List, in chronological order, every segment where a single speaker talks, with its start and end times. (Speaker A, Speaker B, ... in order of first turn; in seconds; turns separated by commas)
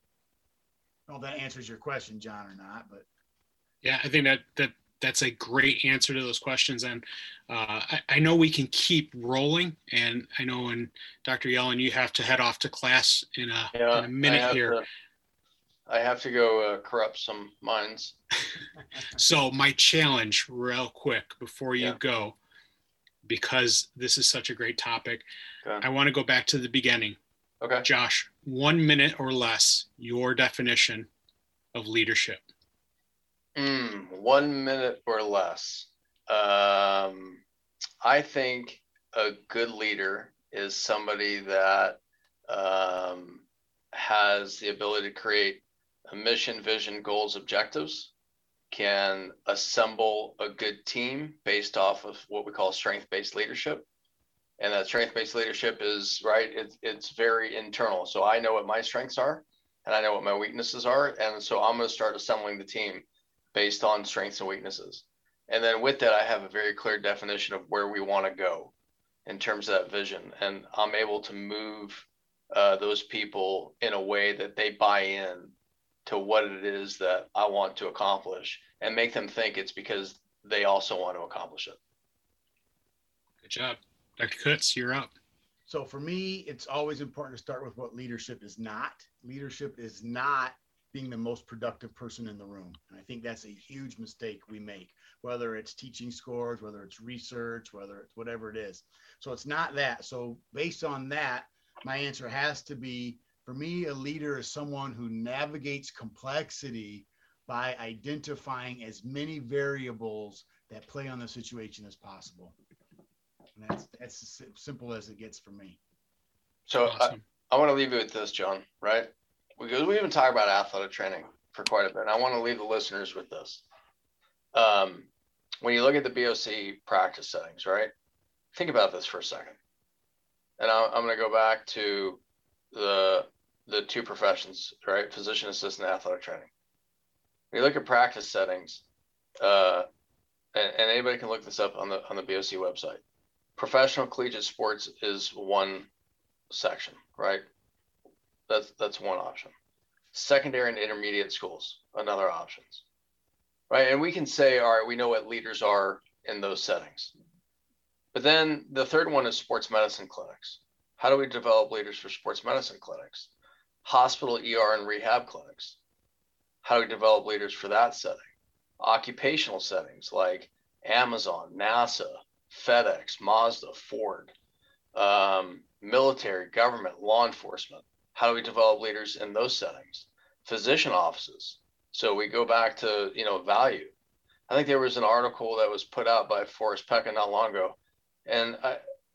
Speaker A: 1.1-3.0, Speaker B: 3.8-14.8, Speaker C: 13.7-14.8, Speaker C: 15.9-18.2, Speaker B: 19.1-22.4, Speaker B: 23.2-25.2, Speaker B: 25.8-27.2, Speaker C: 27.6-27.9, Speaker B: 27.8-31.1, Speaker B: 31.7-32.4, Speaker C: 33.5-37.4, Speaker C: 38.0-48.1, Speaker C: 48.7-53.9, Speaker C: 54.6-68.7, Speaker C: 69.2-75.5, Speaker C: 76.0-81.8, Speaker B: 83.4-85.1, Speaker A: 85.7-112.5, Speaker A: 113.5-115.8, Speaker C: 116.7-123.6, Speaker B: 116.8-117.2, Speaker C: 124.5-125.1, Speaker C: 125.6-127.9, Speaker C: 128.5-129.6, Speaker C: 130.6-132.2, Speaker C: 132.7-136.5, Speaker C: 137.5-138.8, Speaker C: 139.4-139.8, Speaker C: 140.5-143.0, Speaker C: 143.6-145.9, Speaker C: 146.5-147.4, Speaker C: 148.5-149.5, Speaker C: 150.1-152.8, Speaker C: 153.7-157.1, Speaker C: 158.1-163.3, Speaker C: 163.8-165.8, Speaker C: 166.6-168.2, Speaker C: 168.8-174.3, Speaker C: 174.9-183.9, Speaker C: 184.5-188.8